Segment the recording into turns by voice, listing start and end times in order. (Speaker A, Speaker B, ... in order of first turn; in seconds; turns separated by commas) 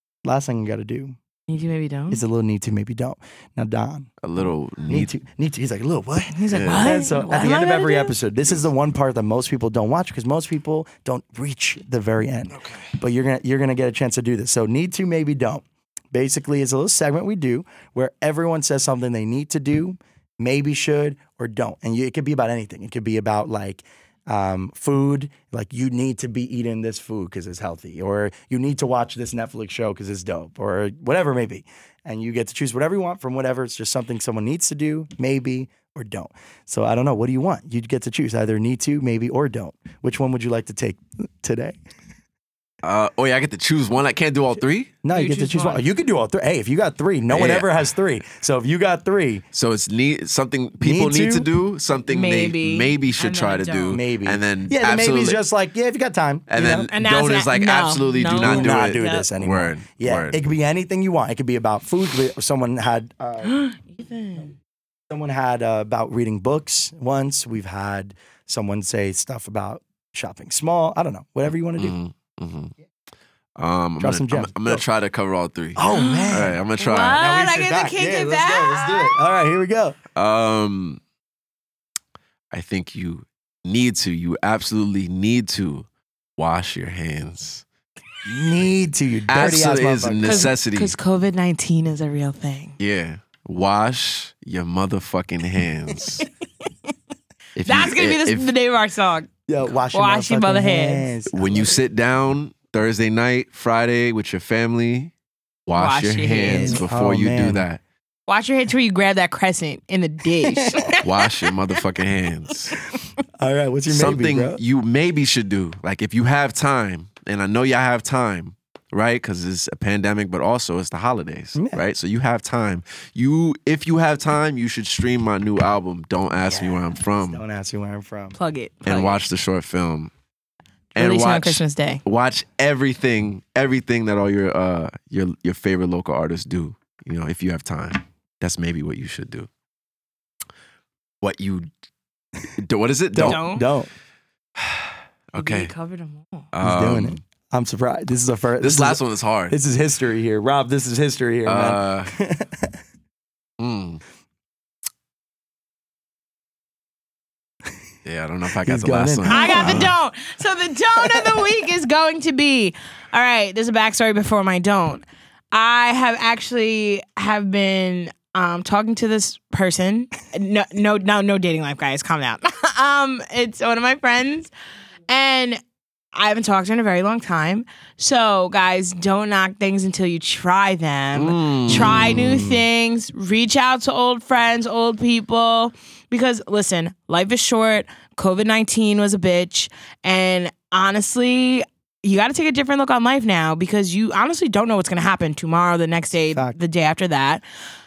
Speaker A: 0.2-1.2, Speaker B: 1.5-2.2, Speaker A: 2.1-4.1, Speaker C: 4.2-5.1, Speaker A: 4.9-41.8, Speaker B: 6.3-8.1, Speaker C: 6.5-6.9, Speaker C: 12.5-12.9, Speaker C: 42.8-45.0, Speaker A: 45.0-49.4, Speaker B: 45.1-45.8, Speaker C: 47.3-47.8, Speaker C: 49.5-55.4, Speaker A: 50.8-51.5, Speaker B: 51.9-54.0, Speaker A: 53.9-56.9, Speaker C: 56.5-60.4, Speaker B: 56.9-59.3, Speaker A: 58.3-63.5, Speaker B: 63.4-64.5, Speaker A: 65.1-72.0, Speaker C: 71.8-72.7, Speaker C: 73.6-77.2, Speaker A: 74.0-74.8, Speaker A: 75.8-80.0, Speaker B: 75.9-79.1, Speaker C: 80.1-81.0, Speaker C: 82.5-85.8, Speaker C: 86.4-87.6, Speaker A: 88.2-90.5, Speaker C: 89.3-91.0, Speaker B: 90.2-92.8, Speaker C: 92.8-96.2, Speaker B: 96.2-96.9, Speaker C: 97.5-98.5, Speaker B: 97.7-101.1, Speaker A: 99.5-101.7, Speaker C: 101.3-105.1, Speaker C: 105.7-107.8, Speaker B: 105.8-106.8, Speaker A: 106.4-107.7, Speaker B: 108.3-111.8, Speaker A: 110.4-111.0, Speaker C: 111.0-112.8, Speaker B: 112.7-113.0, Speaker A: 113.4-114.6, Speaker C: 113.9-127.4, Speaker A: 121.5-121.8, Speaker A: 126.5-128.3, Speaker B: 128.3-129.2, Speaker C: 128.8-130.1, Speaker B: 130.9-132.0, Speaker C: 130.9-139.5, Speaker C: 141.2-141.7, Speaker C: 142.5-143.4, Speaker A: 143.1-143.9, Speaker B: 143.2-143.7, Speaker C: 144.6-145.7, Speaker B: 145.3-146.5, Speaker C: 146.5-147.2, Speaker A: 146.6-152.8, Speaker C: 148.6-149.6, Speaker C: 151.4-152.1, Speaker C: 153.6-154.0, Speaker C: 158.1-159.9, Speaker A: 158.6-159.9, Speaker B: 159.3-174.5, Speaker A: 160.9-161.5, Speaker B: 175.1-175.6, Speaker B: 176.1-197.4, Speaker C: 181.1-182.4, Speaker A: 181.7-182.6, Speaker A: 196.2-196.6